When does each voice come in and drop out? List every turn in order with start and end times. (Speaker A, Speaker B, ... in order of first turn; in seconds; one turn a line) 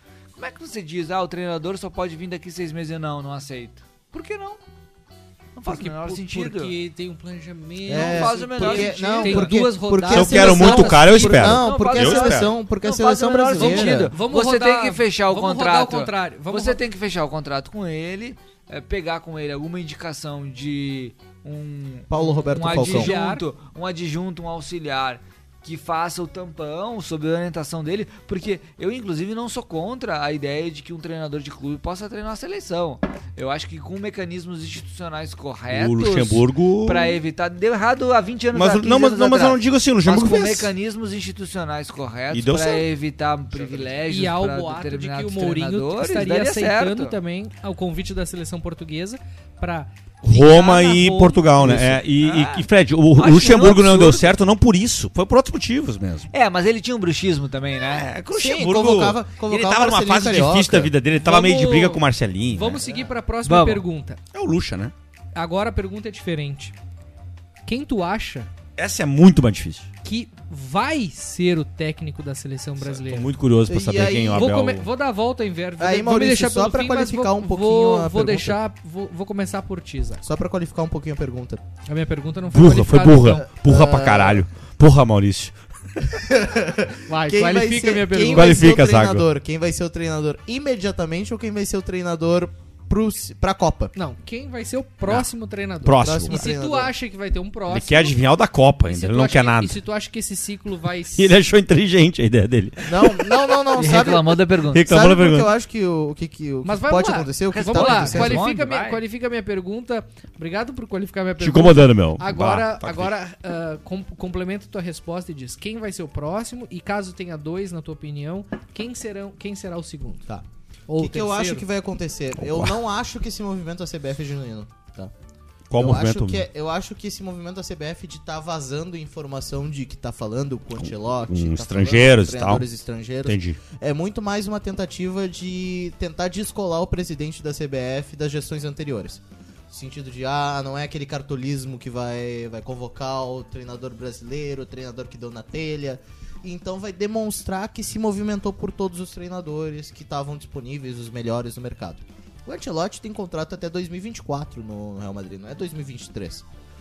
Speaker A: 0.4-4.6
Speaker A: 5.6-6.8
Speaker B: 5.7-11.2
Speaker C: 7.9-14.1
Speaker A: 7.9-9.6
Speaker D: 10.0-12.5
Speaker A: 11.0-47.2
Speaker B: 13.6-16.8
Speaker C: 22.1-23.1
Speaker B: 22.5-23.4
Speaker D: 35.7-37.2
Speaker D: 38.5-40.7
Speaker D: 42.3-42.9
Speaker B: 44.1-52.0
Speaker D: 50.2-56.3
Speaker C: 51.6-52.0
Speaker A: 52.1-54.3
Speaker A: 56.3-58.1
Speaker D: 57.8-62.9
Speaker C: 58.3-60.9
Speaker B: 61.1-64.2
Speaker A: 63.5-63.9
Speaker D: 64.3-64.9
Speaker B: 65.3-66.8
Speaker B: 67.7-68.5
Speaker D: 68.8-69.9
Speaker B: 70.0-73.3
Speaker D: 72.8-74.9
Speaker C: 73.7-74.5
Speaker B: 74.3-80.2
Speaker C: 75.8-78.6
Speaker C: 80.2-81.6
Speaker B: 81.9-83.5
Speaker D: 82.5-86.2
Speaker C: 83.3-84.4
Speaker C: 86.2-93.9
Speaker B: 87.1-88.7
Speaker D: 88.3-89.2
Speaker B: 94.0-98.2
Speaker D: 95.8-96.5
Speaker C: 96.0-96.9
Speaker D: 97.7-99.8
Speaker B: 98.8-101.3
Speaker D: 101.2-103.5
Speaker C: 102.8-108.5
Speaker A: 103.7-104.9
Speaker D: 104.7-105.5
Speaker B: 106.6-120.3
Speaker A: 107.5-109.0
Speaker D: 111.4-113.1
Speaker B: 120.9-121.7
Speaker C: 121.0-125.1
Speaker D: 122.4-122.8
Speaker D: 125.7-126.5
Speaker C: 125.8-156.4
Speaker D: 130.8-132.7
Speaker D: 133.2-133.6